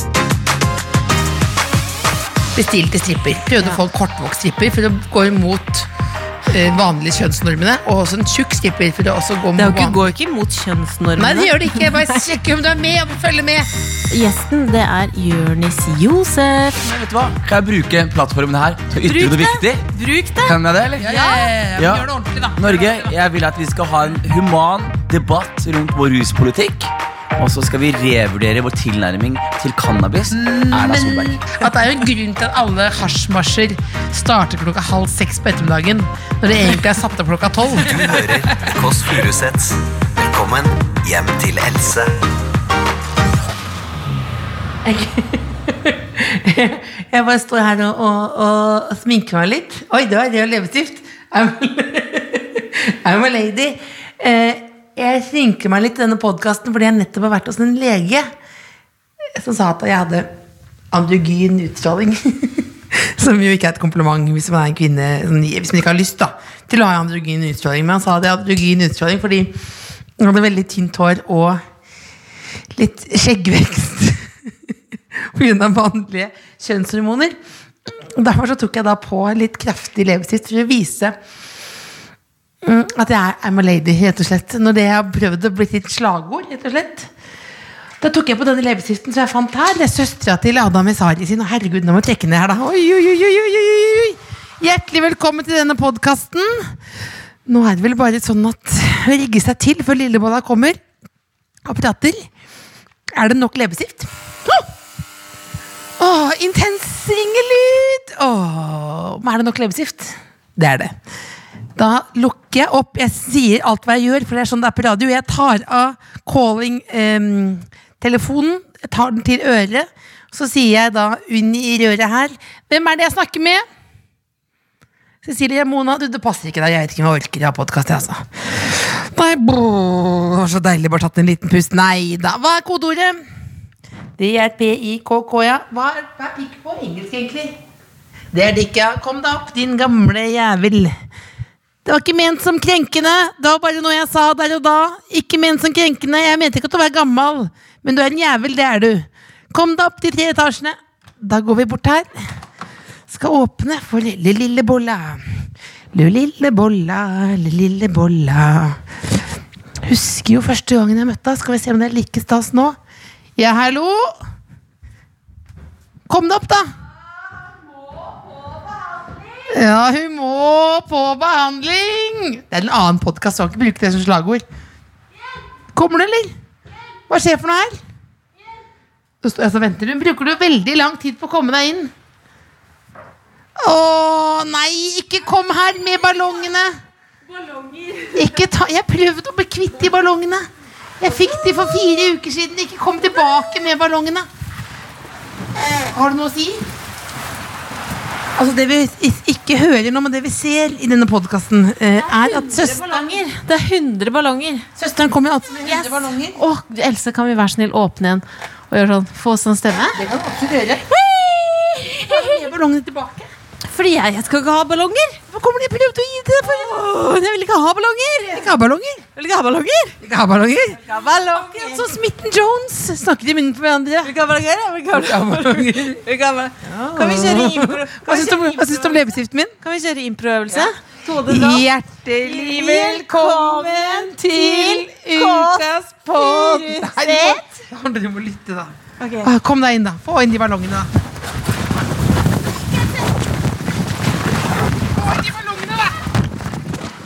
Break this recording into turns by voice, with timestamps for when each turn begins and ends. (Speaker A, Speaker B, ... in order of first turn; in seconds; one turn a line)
Speaker A: 2.5-5.9
Speaker A: 6.5-10.1
Speaker B: 9.6-12.2
Speaker A: 11.2-13.7
Speaker B: 14.1-16.8
Speaker C: 16.8-19.8
Speaker B: 19.0-20.6
Speaker C: 20.4-22.0
Speaker A: 21.0-23.2
Speaker C: 22.6-31.6
Speaker A: 30.3-38.2
Speaker D: 37.8-42.1
Speaker A: 44.8-58.3
Speaker A: 59.3-60.3
Speaker A: 60.9-69.6
Speaker A: 70.2-71.6
Speaker A: 72.7-77.4
Speaker A: 78.0-81.2
Speaker A: 82.6-87.1
Speaker A: 88.0-96.8
Speaker A: 97.5-100.8
Speaker A: 101.6-102.3
Speaker A: 103.1-104.1
Speaker A: 106.0-111.0
Speaker A: 111.8-123.6
Speaker A: 125.2-133.2
Speaker A: 134.2-137.6
Speaker A: 138.3-141.0
Speaker A: 141.8-152.3
Speaker A: 153.1-155.3
Speaker A: 155.9-158.8
Speaker A: 159.8-162.8
Speaker A: 163.4-164.2
Speaker A: 166.1-166.7
Speaker A: 169.5-174.4
Speaker A: 175.7-176.3
Speaker A: 177.1-177.8
Speaker A: 179.2-181.9
Speaker A: 183.6-186.8
Speaker B: 187.3-188.4
Speaker A: 188.1-190.5
Speaker A: 191.0-194.3
Speaker A: 195.8-196.6
Speaker A: 198.4-203.2
Speaker B: 202.0-204.7
Speaker A: 204.8-206.4
Speaker B: 205.6-210.0
Speaker A: 209.9-210.9
Speaker B: 210.9-212.5
Speaker A: 212.0-213.3
Speaker B: 213.7-215.2
Speaker A: 215.3-216.9
Speaker B: 216.4-218.5
Speaker A: 218.3-219.1
Speaker B: 219.2-220.0
Speaker A: 220.0-224.1
Speaker B: 220.7-221.9
Speaker B: 224.0-231.7
Speaker A: 224.9-226.0
Speaker A: 226.6-229.6
Speaker A: 231.2-240.9
Speaker B: 232.2-237.6
Speaker B: 239.0-239.3
Speaker A: 244.9-245.9